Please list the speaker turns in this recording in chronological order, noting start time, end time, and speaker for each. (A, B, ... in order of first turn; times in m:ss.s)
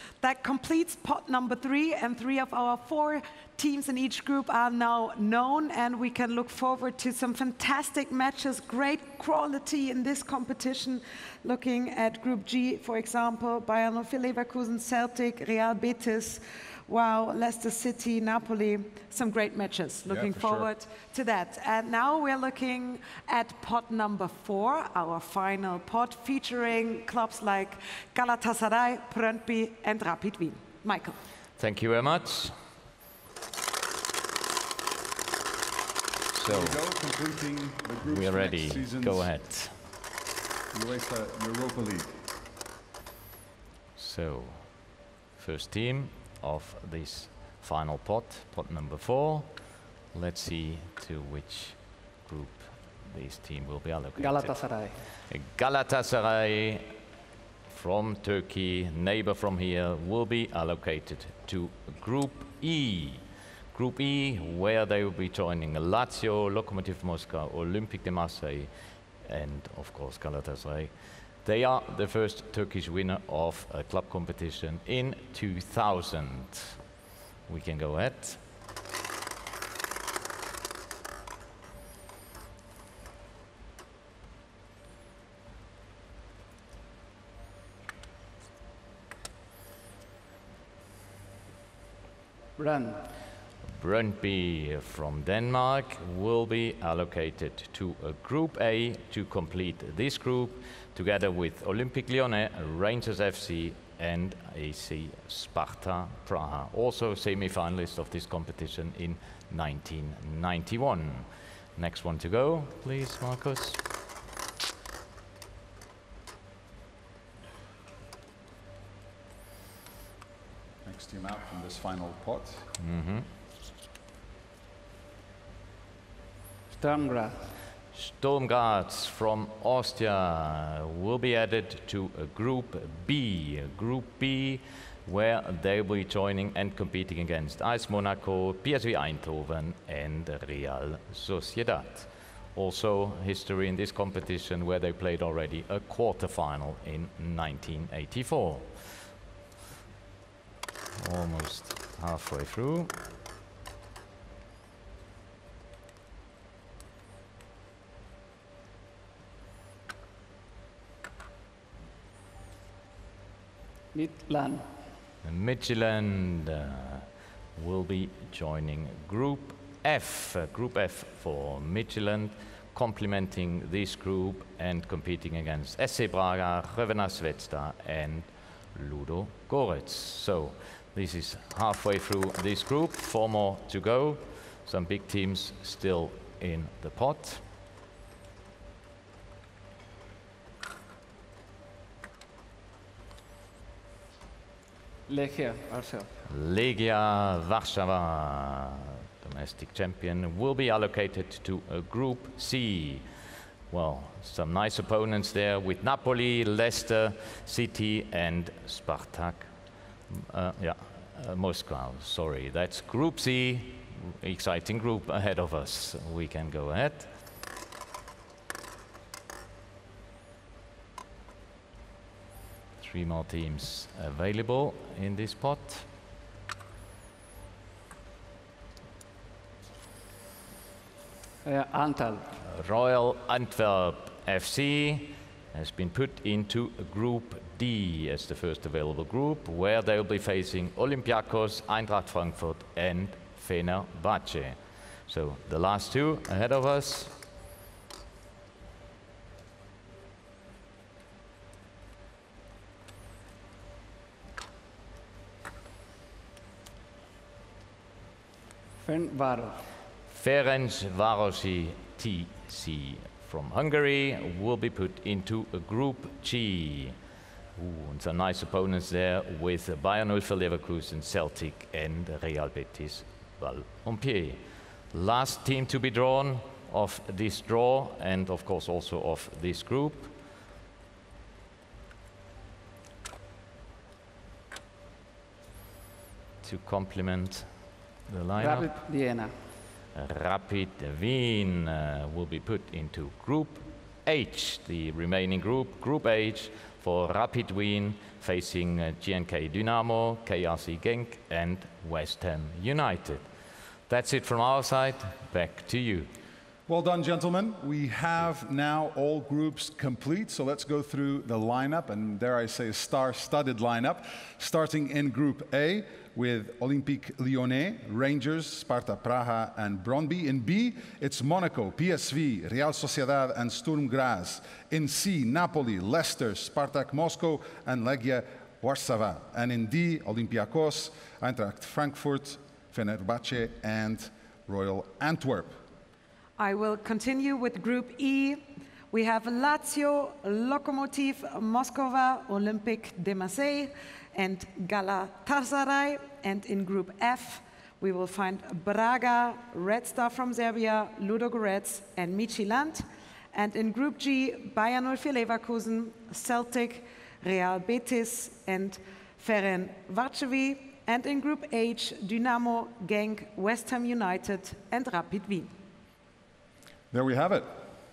0:00.2-0:31.2 A
0:20.1-0:20.7 B
0:31.6-0:32.6 C
0:36.3-0:36.8 C
0:36.4-0:39.3 B
0:38.1-0:39.8 C
0:40.7-0:42.1 B
0:44.0-0:54.6 C
0:54.2-0:55.1 D
0:55.3-0:57.0 C
0:57.7-1:08.7 C
1:09.2-1:16.8 C
1:17.5-1:18.4 C
1:32.6-1:33.0 D
1:33.7-1:53.8 C
2:00.8-2:02.7 B
2:02.8-2:03.3 C
2:06.7-2:07.5 D
2:07.9-2:28.9 C
2:31.0-2:32.9 C
2:43.9-2:44.7 D
2:45.2-3:07.4 C
3:15.1-3:16.2 D
3:16.3-3:23.1 C
3:23.7-3:37.1 C
3:42.8-3:45.9 C
3:51.4-3:52.3 D
3:52.4-4:07.2 C
4:18.8-4:19.6 D
4:20.1-4:27.0 C
4:27.6-4:40.1 C
4:46.4-4:47.5 C
4:48.1-4:48.7 C
4:48.4-4:49.3 D
4:50.0-5:03.2 C
5:03.9-5:06.1 C
5:06.7-5:35.6 B
5:36.4-6:05.5 A
6:06.9-6:07.5 B